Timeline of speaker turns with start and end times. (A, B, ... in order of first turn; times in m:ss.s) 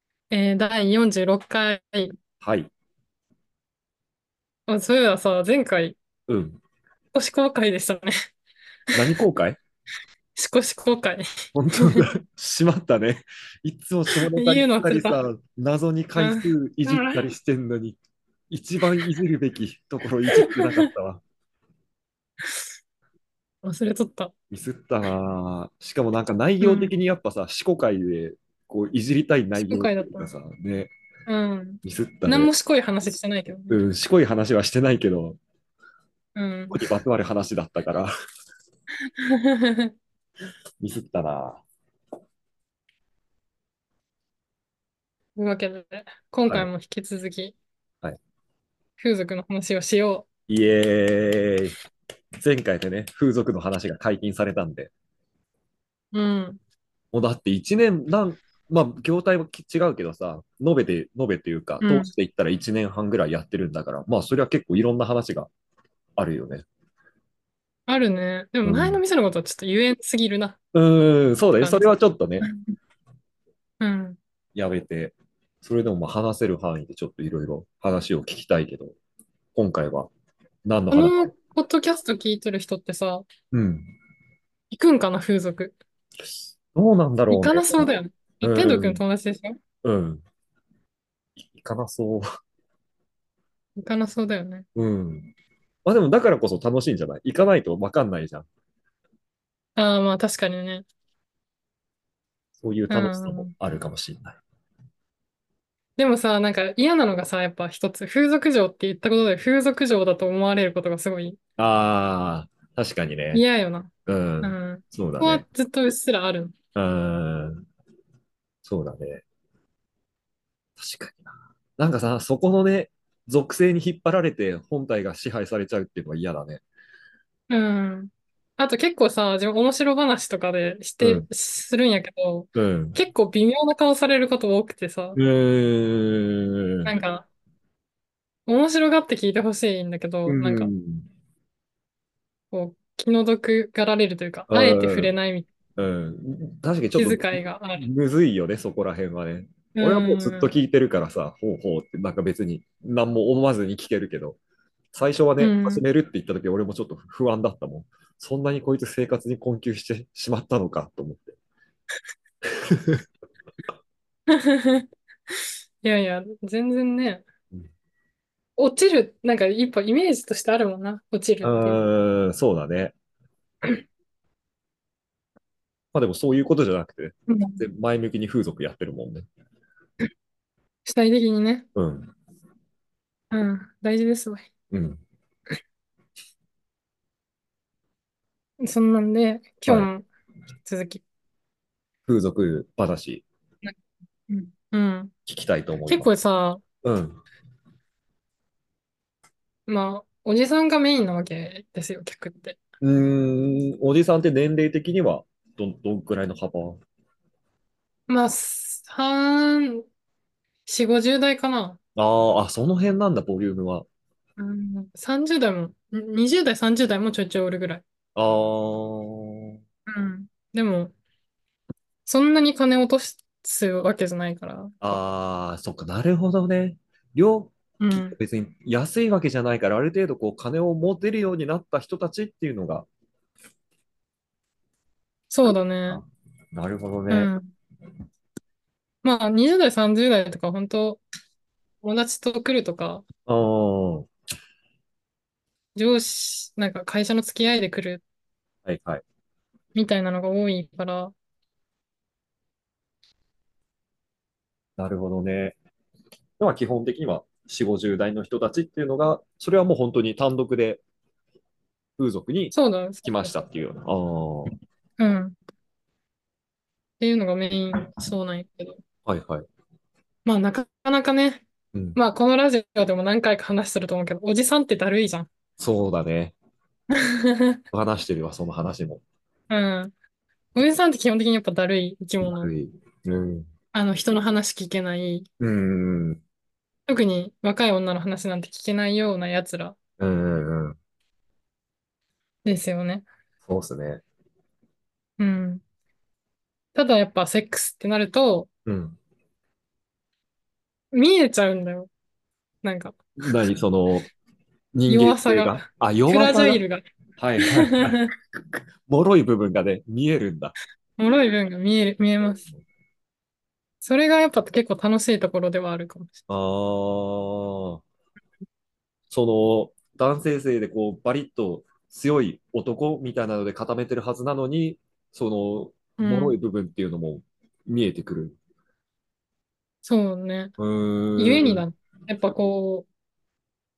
0:00.3-0:02.1 A
0:02.4-0:02.7 B
0:04.7-0:06.0 A
0:06.3-0:06.6 B
0:07.1-0:08.1 A
0:08.9-0:09.6 B
0:10.3-0:12.1 A
0:11.5-0:18.0 B
0:14.1-0:15.2 A
0:16.2-0:17.2 A
0:18.5-0:21.2 B
0:20.3-0:20.9 A
0:23.6-0:24.3 A
0:24.5-0:30.9 B
0:26.6-0:26.9 A
0:29.6-0:30.3 A
0:31.3-0:33.8 A
0:31.8-0:32.5 B
0:33.7-0:35.4 B
0:36.3-0:36.8 A
0:36.7-0:38.1 B
0:39.2-0:39.9 A
0:40.8-0:41.6 B
0:45.4-0:47.6 A
0:49.0-0:50.3 A
0:50.5-0:51.7 B
0:52.4-0:54.9 B
0:56.1-0:56.6 A
0:57.1-1:05.5 B
1:01.8-1:02.1 A
1:06.2-1:06.6 B
1:07.9-1:10.6 A
1:08.6-1:09.0 B
1:10.7-1:12.4 B
1:11.6-1:12.5 A
1:13.8-1:14.2 A
1:14.5-1:19.0 B
1:19.5-1:20.1 B
1:20.6-1:21.3 B
1:20.9-1:23.2 A
1:23.5-1:23.9 B
1:24.7-1:25.8 A
1:26.7-1:27.8 B
1:27.3-1:29.6 A
1:28.4-1:29.0 B
1:29.8-1:30.2 B
1:31.4-1:32.2 B
1:33.8-1:34.6 A
1:34.8-1:35.3 B
1:35.8-1:38.5 B
1:39.8-1:40.8 A
1:42.6-1:44.4 B
1:42.9-1:43.5 A
1:46.0-1:51.4 A
1:51.6-1:53.4 B
1:53.3-1:53.9 A
1:54.1-1:55.4 B
1:54.4-1:56.5 A
1:56.7-1:57.6 B
1:58.6-1:59.2 B
2:00.8-2:06.6 B
2:07.5-2:15.2 A
2:11.0-2:11.2 B
2:12.5-2:13.0 B
2:15.2-2:16.9 B
2:16.8-2:17.3 A
2:18.5-2:20.7 A
2:20.2-2:21.1 B
2:22.5-2:25.5 A
2:24.5-2:25.1 B
2:25.8-2:34.4 B
2:26.9-2:27.9 A
2:29.7-2:30.5 A
2:34.9-2:41.4 B
2:35.4-2:35.8 A
2:42.7-2:43.0 B
2:44.3-2:44.8 A
2:45.8-2:47.2 A
2:48.6-2:51.8 A
2:51.4-2:52.9 B
2:55.9-2:59.3 B
2:57.3-2:57.6 A
3:00.8-3:01.6 A
3:01.7-3:02.1 B
3:03.3-3:04.5 A
3:04.7-3:05.0 B
3:08.6-3:10.0 A
3:10.6-3:11.0 A
3:12.1-3:13.2 B
3:14.3-3:15.1 A
3:15.3-3:16.1 B
3:15.9-3:16.6 A
3:16.8-3:17.2 B
3:19.7-3:22.6 A
3:22.8-3:26.8 B
3:28.1-3:29.8 A
3:30.6-3:31.8 A
3:32.0-3:33.8 B
3:34.4-3:37.8 A
3:38.2-3:39.6 B
3:39.9-3:40.9 A
3:42.0-3:45.0 A
3:44.8-3:47.5 B
3:47.8-3:48.2 A
3:48.1-3:52.9 B
3:55.3-3:56.0 A
3:55.4-3:57.3 B
3:57.1-3:57.5 A
3:59.0-4:01.0 A
4:01.8-4:03.0 A
4:03.3-4:04.1 B
4:05.8-4:08.0 A
4:08.6-4:09.0 B
4:09.7-4:11.1 A
4:14.8-4:15.6 B
4:16.4-4:20.8 B
4:22.0-4:24.5 B
4:22.5-4:23.4 A
4:25.0-4:25.4 A
4:27.0-4:28.8 A
4:29.0-4:29.5 B
4:30.2-4:31.4 A
4:31.9-4:35.3 A
4:35.6-4:36.4 B
4:36.9-4:37.6 A
4:37.7-4:39.0 B
4:39.5-4:39.9 A
4:40.5-4:42.5 A
4:42.2-4:43.5 B
4:43.7-4:45.3 A
4:45.4-4:46.2 B
4:46.9-4:49.8 A
4:50.0-4:50.8 B
4:52.4-4:53.0 A
4:53.4-4:54.0 B
4:55.2-4:55.6 A
4:56.7-4:58.5 A
4:58.6-4:59.0 B
5:00.9-5:01.9 A
5:02.6-5:03.0 A
5:03.2-5:04.1 B
5:04.7-5:06.6 B
5:04.9-5:06.8 A
5:07.2-5:10.5 B
5:07.4-5:08.1 A
5:11.0-5:12.4 A
5:13.8-5:16.2 A
5:16.3-5:17.8 B
5:19.1-5:28.4 B
5:26.0-5:26.4 A
5:29.8-5:30.5 A
5:30.6-5:31.6 B
5:31.2-5:32.9 A